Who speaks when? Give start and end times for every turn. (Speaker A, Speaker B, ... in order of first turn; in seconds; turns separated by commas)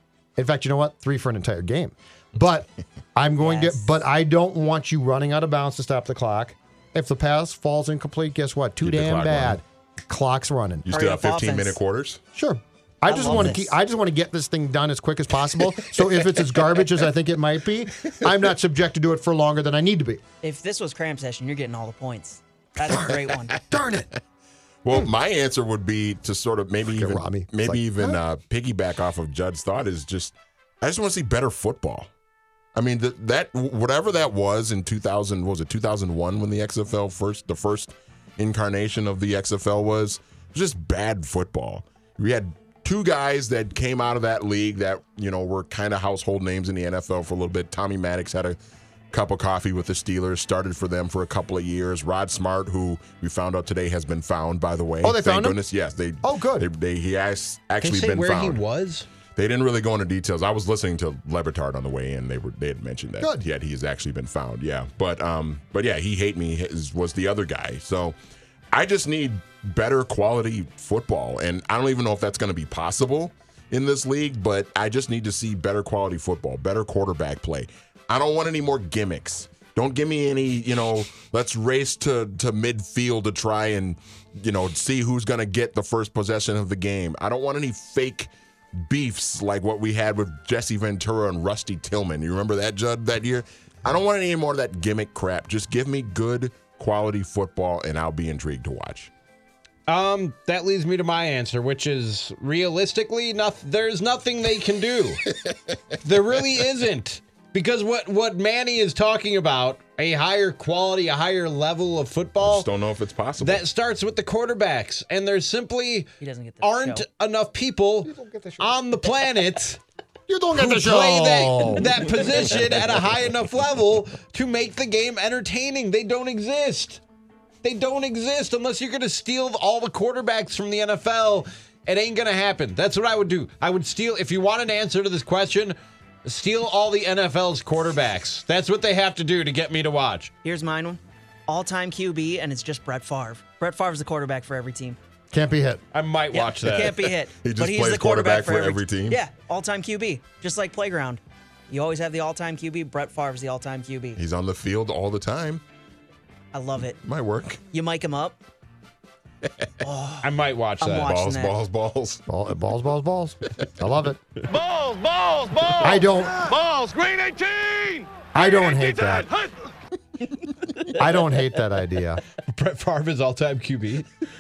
Speaker A: 0.4-10.9, Speaker B: 3.4-4.0, Speaker C: 8.8-9.6, Speaker C: 10.8-12.2, Speaker B: 10.9-11.8, Speaker A: 12.3-20.2, Speaker B: 13.1-13.7, Speaker B: 20.4-23.6, Speaker A: 22.9-23.1, Speaker A: 23.7-24.1, Speaker C: 24.8-32.1, Speaker A: 26.9-28.2, Speaker C: 32.7-48.6, Speaker C: 49.1-58.6, Speaker A: 55.0-55.6, Speaker A: 56.2-56.7, Speaker D: 57.8-59.1, Speaker C: 59.4-68.2, Speaker A: 63.2-63.4, Speaker C: 68.7-99.1, Speaker D: 99.9-105.2, Speaker D: 106.0-112.7, Speaker C: 112.4-113.6, Speaker D: 113.4-116.1, Speaker B: 116.2-117.0, Speaker D: 116.6-119.8, Speaker A: 118.0-118.7, Speaker A: 120.3-122.0, Speaker D: 120.5-127.0, Speaker D: 127.6-140.3, Speaker B: 140.4-145.0, Speaker A: 145.3-145.8, Speaker D: 145.9-147.1, Speaker B: 146.3-154.2, Speaker C: 147.4-149.2, Speaker C: 154.2-155.6, Speaker B: 156.5-157.0, Speaker C: 157.0-157.6, Speaker B: 157.7-158.4, Speaker B: 159.8-160.3, Speaker D: 160.2-161.1, Speaker B: 160.8-161.6, Speaker C: 161.0-162.2, Speaker A: 162.3-164.2, Speaker E: 164.5-169.7, Speaker A: 165.8-166.5, Speaker A: 168.3-169.3, Speaker A: 170.9-172.2, Speaker D: 172.5-174.1